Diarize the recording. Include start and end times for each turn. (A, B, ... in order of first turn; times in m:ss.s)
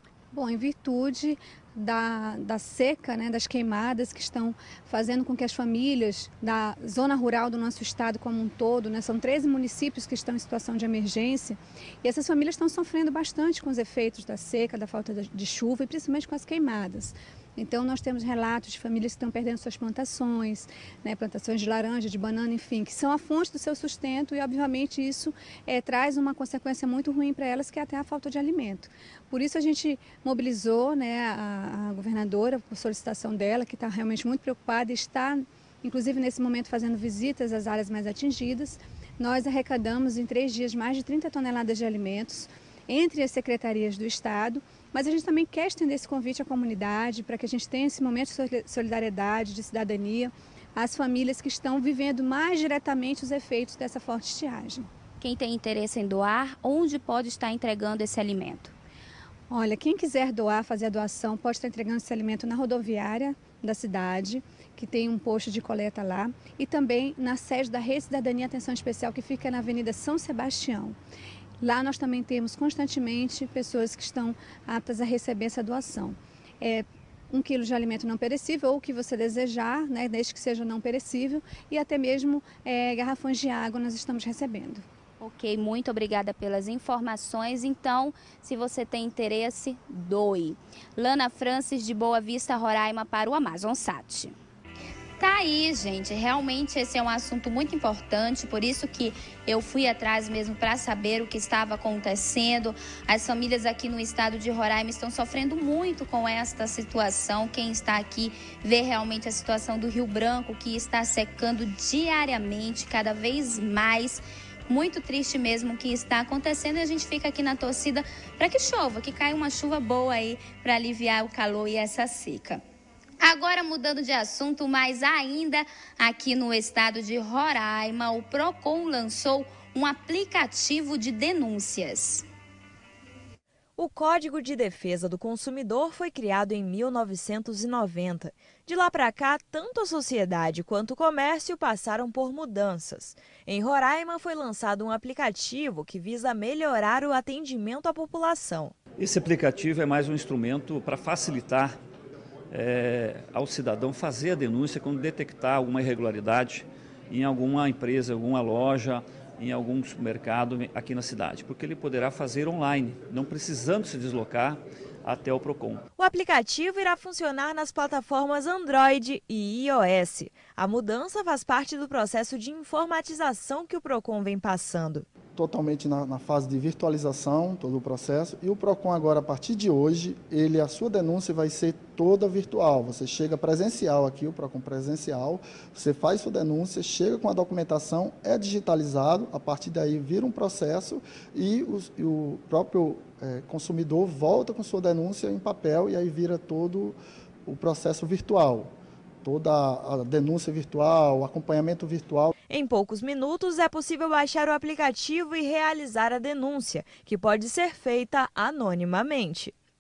0:00.3-0:54.8 A
0:55.2-0:58.7 B
0:59.5-1:10.9 A
1:11.6-1:24.8 A
1:25.2-1:34.3 B
1:35.2-2:02.6 B
2:03.2-2:12.2 B
2:13.8-2:28.7 C
2:29.0-2:31.8 D
2:32.5-2:45.8 D
2:46.0-2:55.1 C
2:55.4-3:22.3 E
3:22.5-3:29.5 C